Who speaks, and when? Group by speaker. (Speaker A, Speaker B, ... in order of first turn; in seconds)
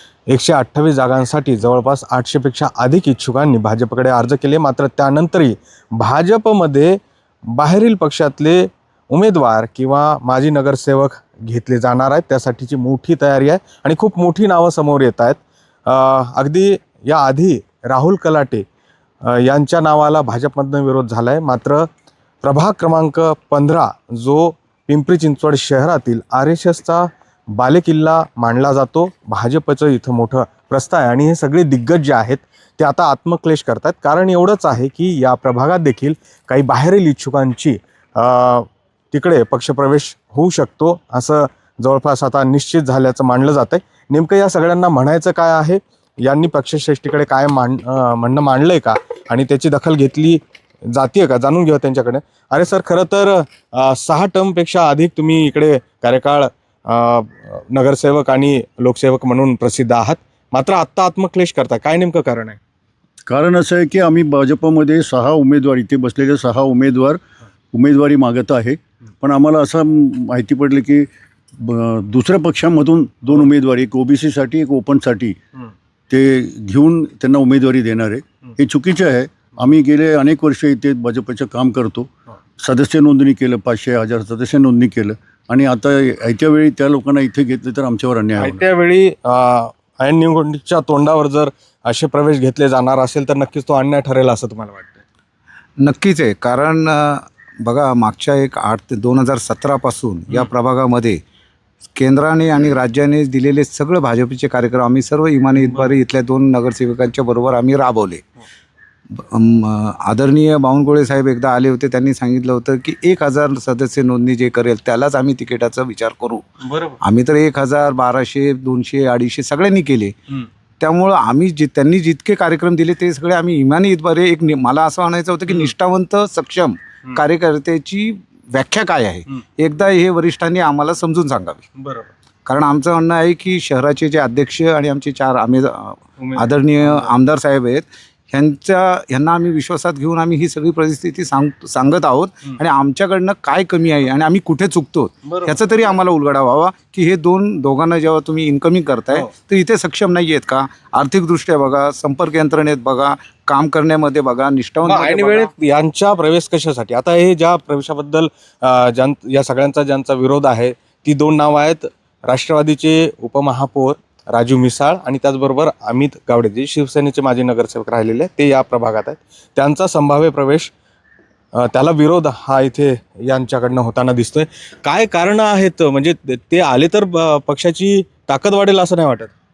Speaker A: 0.3-7.0, 7.6-18.6, 19.2-21.9, 22.4-50.4, 50.9-62.6, 88.4-95.0, 116.6-117.0, 131.8-132.1, 136.2-137.1, 145.3-145.5, 154.8-170.7, 171.6-179.3
Speaker B: 63.3-67.2, 67.7-71.1, 71.6-75.4, 76.1-82.1, 82.6-88.6
Speaker C: 95.8-101.2, 102.0-108.2, 109.2-116.5, 117.0-120.2, 120.8-131.7, 132.5-155.5